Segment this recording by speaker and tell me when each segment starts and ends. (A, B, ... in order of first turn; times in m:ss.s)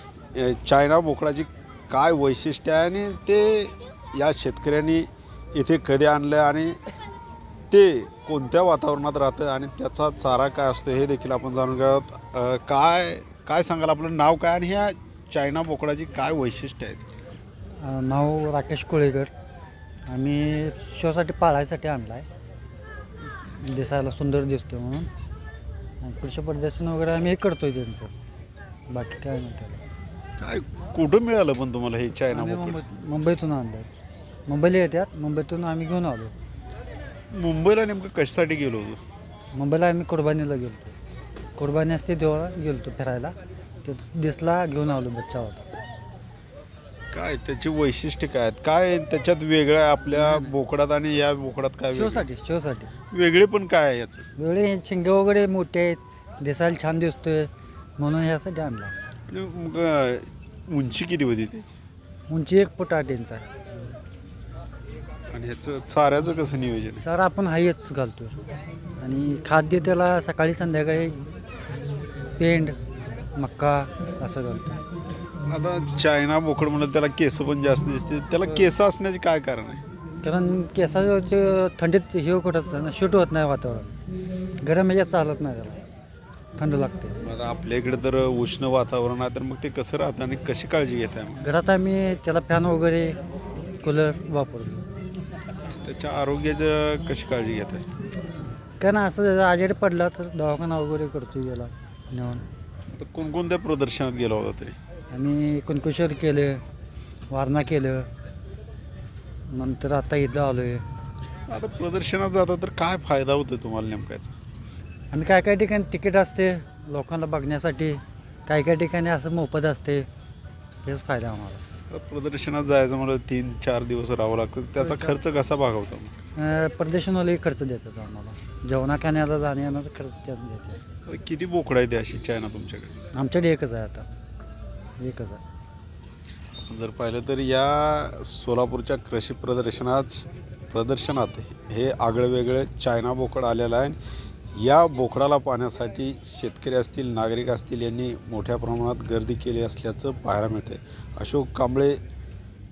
0:00.3-0:06.8 A
0:07.7-0:17.0 A
0:17.8-0:19.3 B
0:20.1-0:22.2 B
0:23.4-0:25.1 B
0:26.0-0:28.1 B
0:28.9-0:29.8 B
0:30.4-0:32.8 A
0:32.3-0:33.9 B
0:34.5-0:36.3 B
0:37.3-0:39.0 A
0:39.5-0:41.0 B
0:41.6-0:45.7 B
0:47.1-0:52.3 A
0:50.1-0:50.5 B
0:51.9-0:52.9 B
0:53.1-0:54.3 A
0:54.4-0:58.9 B
0:59.3-1:01.7 A
1:02.3-1:03.5 B
1:05.3-1:07.0 A
1:07.0-1:08.3 B
1:09.0-1:11.2 B
1:12.4-1:12.8 B
1:13.4-1:14.8 B
1:15.4-1:19.8 A
1:20.2-1:23.9 B
1:24.6-1:25.8 B
1:26.6-1:27.2 B
1:27.2-1:31.4 A
1:31.4-1:33.2 B
1:33.8-1:34.8 B
1:35.7-1:37.9 A
1:38.8-1:42.4 B
1:42.9-1:44.8 A
1:45.1-1:46.6 B
1:47.3-1:48.1 B
1:49.5-1:50.8 B
1:51.5-1:54.3 A
1:55.1-2:00.1 B
2:00.8-2:01.6 B
2:01.9-2:06.1 A
2:04.8-2:05.2 B
2:06.4-2:10.8 B
2:11.1-2:13.0 A
2:13.1-2:14.1 B
2:15.0-2:15.4 B
2:16.6-2:24.0 A
2:24.6-2:32.0 A